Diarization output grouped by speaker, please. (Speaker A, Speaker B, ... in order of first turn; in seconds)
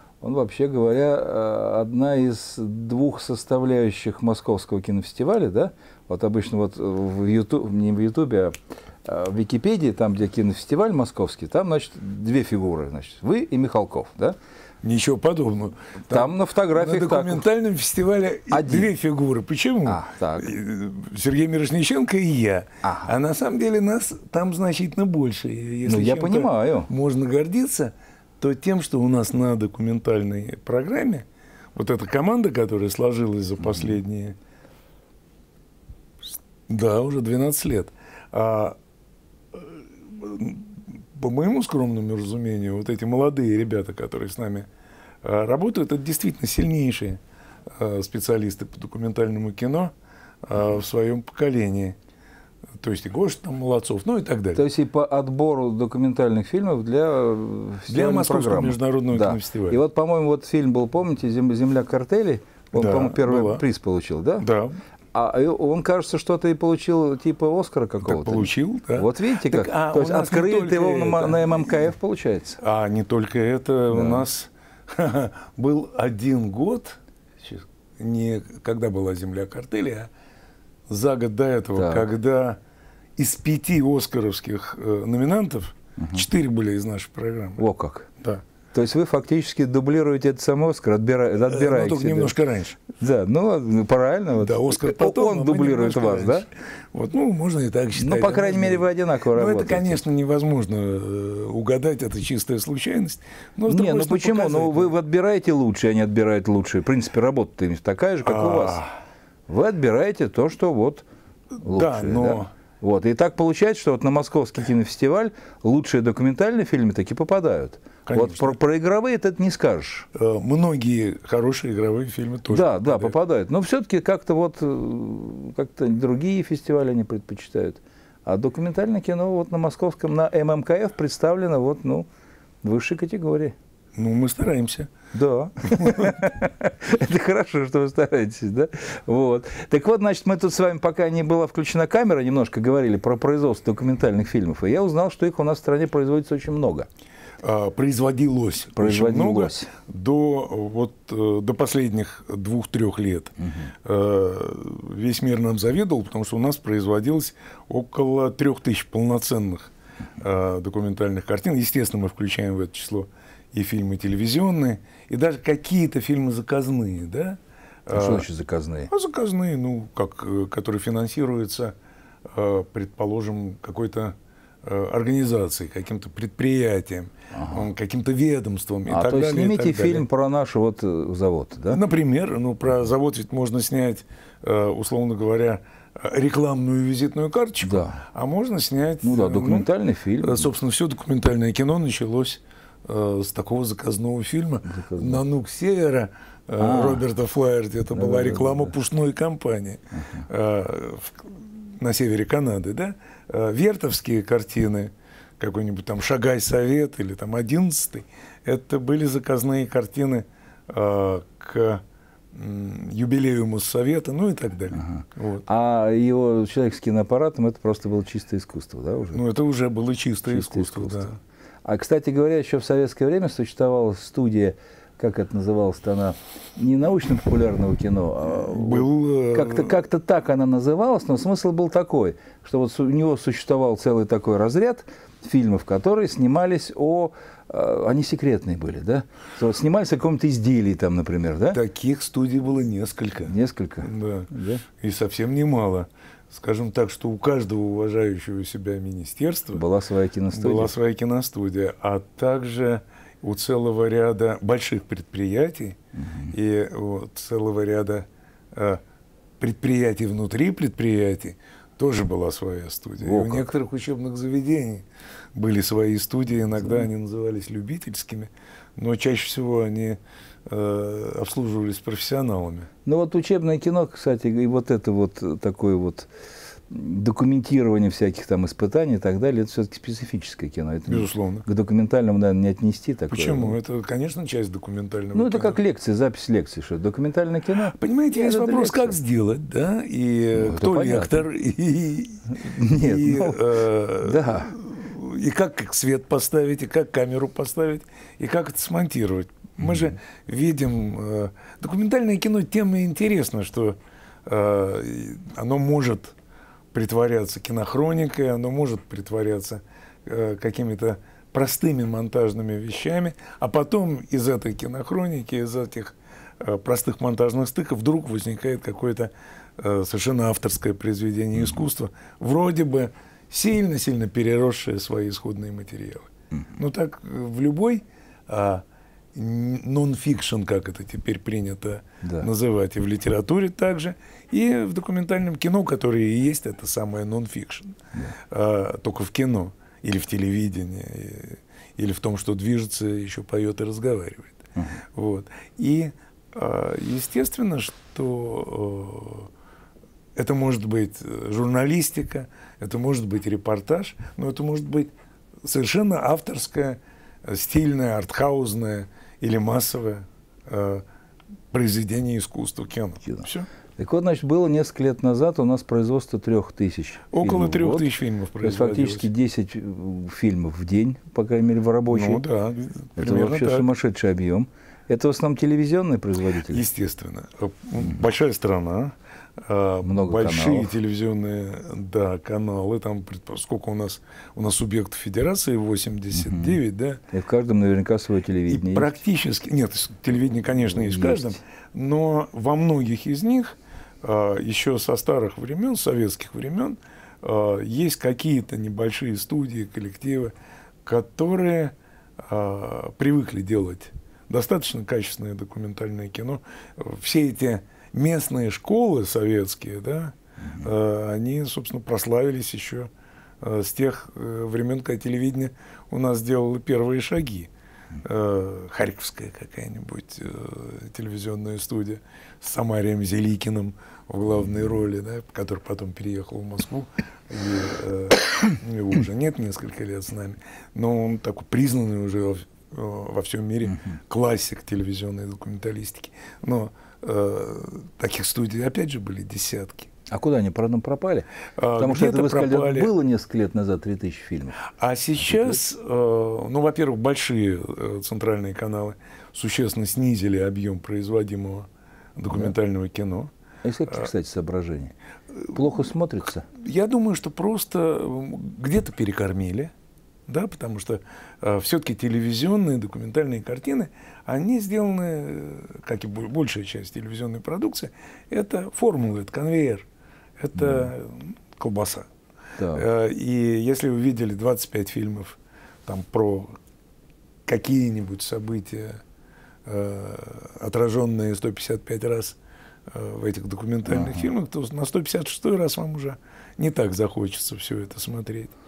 Speaker A: 0.2-14.4, 16.1-17.5, 18.5-18.9, 19.9-20.6, 22.8-23.1, 25.9-26.9, 54.5-64.5, 65.1-72.6, 73.9-74.3, 81.8-82.1, 86.0-86.3, 87.6-88.1, 88.7-92.3, 93.0-96.5, 98.0-100.0, 103.7-108.8, 109.5-111.0, 111.6-120.1, 122.5-132.1, 132.6-133.6, 135.1-146.9, 148.8-149.7, 153.4-153.7, 167.9-168.9, 177.3-177.7, 178.9-181.8, 187.6-188.0, 189.0-190.5, 194.7-195.2, 196.6-197.0, 197.9-198.7, 199.9-200.3, 214.7-219.2, 220.3-221.1, 221.7-241.6, 243.3-244.6, 249.5-250.7, 256.0-256.4, 263.0-263.5, 272.9-276.1, 276.7-283.6, 285.1-289.0, 290.4-291.3, 292.3-294.5, 299.6-299.9, 332.0-332.3, 344.6-344.8, 363.1-367.9, 368.4-372.2, 373.0-376.6, 379.8-380.7, 386.1-386.6, 387.1-388.9, 390.7-391.4, 410.4-410.7, 433.6-434.0, 440.1-444.6, 445.2-445.6, 453.6-454.9, 455.5-456.5, 470.6-470.9, 472.6-472.9, 483.9-484.3
Speaker B: 14.8-34.4, 36.7-38.8, 39.5-44.7, 45.2-52.0, 52.8-54.6, 57.9-59.8, 62.7-63.6, 64.4-64.8, 68.0-71.9, 72.6-80.1, 80.9-82.6, 83.2-87.7, 91.5-92.8, 94.4-104.9, 108.2-108.9, 111.6-112.5, 118.1-118.6, 120.2-123.2, 134.0-134.9, 135.7-136.2, 147.4-168.3, 168.9-171.8, 172.3-180.1, 181.7-189.7, 190.2-215.4, 219.1-221.2, 228.3-229.8, 241.5-249.6, 250.3-255.8, 256.3-258.8, 259.4-272.7, 280.9-281.5, 283.1-285.6, 287.6-306.1, 306.7-344.4, 344.9-349.3, 350.2-354.9, 355.4-360.9, 361.5-363.5, 367.1-369.1, 371.9-373.7, 376.5-387.0, 388.5-439.9, 441.6-442.9, 444.7-453.3, 456.5-459.7, 460.3-469.9, 470.4-472.1, 472.7-476.6, 477.5-479.0, 479.7-488.5